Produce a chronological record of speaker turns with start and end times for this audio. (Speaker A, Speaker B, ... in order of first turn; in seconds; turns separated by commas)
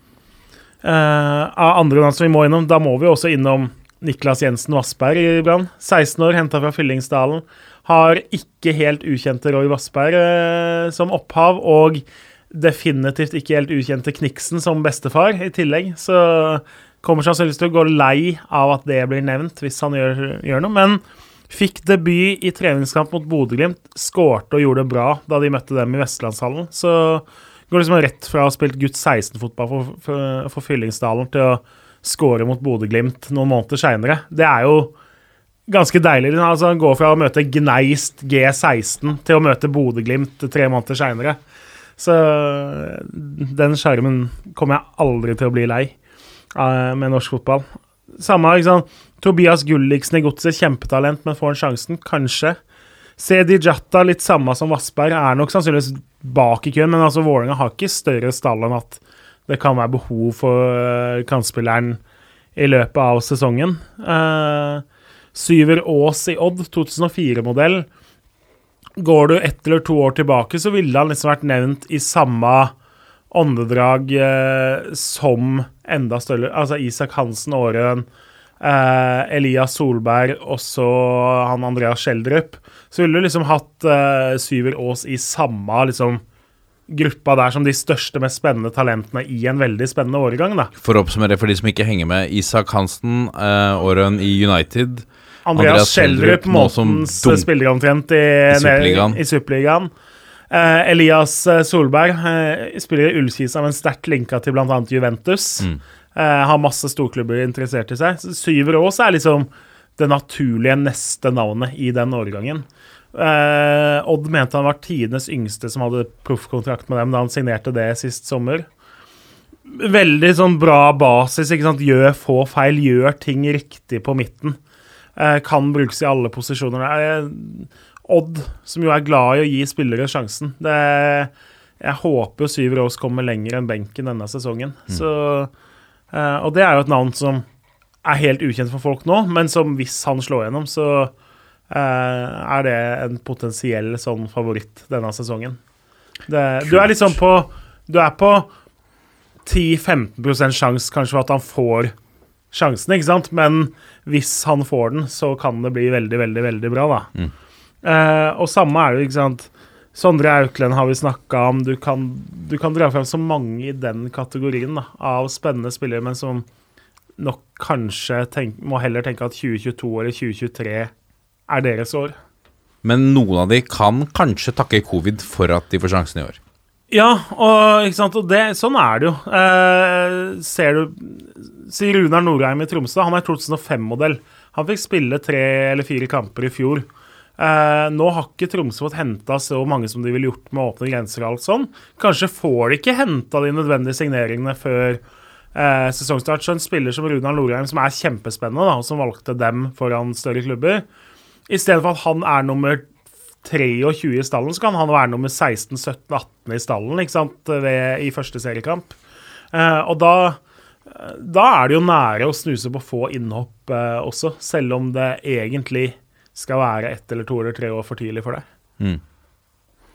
Speaker A: 0.8-34.9, Speaker A: 35.7-41.4, Speaker A: 42.0-45.9, Speaker A: 46.5-52.6, Speaker A: 53.2-62.0, Speaker A: 62.6-67.9, Speaker A: 69.0-72.7, Speaker A: 73.3-78.1, Speaker A: 78.6-86.2, Speaker A: 86.9-90.7, Speaker B: 90.8-97.5, Speaker A: 95.5-99.9, Speaker B: 98.5-99.2, Speaker A: 100.5-118.7, Speaker A: 119.7-124.6, Speaker A: 125.2-135.5, Speaker A: 136.1-137.4, Speaker A: 138.0-141.1, Speaker A: 141.7-145.6, Speaker A: 146.3-148.5, Speaker B: 146.7-147.1, Speaker A: 149.4-151.9, Speaker A: 152.5-157.1, Speaker A: 157.8-166.4, Speaker A: 167.2-170.9, Speaker A: 171.5-172.2, Speaker B: 172.8-176.4, Speaker A: 176.9-186.9, Speaker A: 187.4-195.0, Speaker A: 195.5-200.8, Speaker A: 201.5-202.8, Speaker A: 203.4-209.0, Speaker A: 209.5-218.4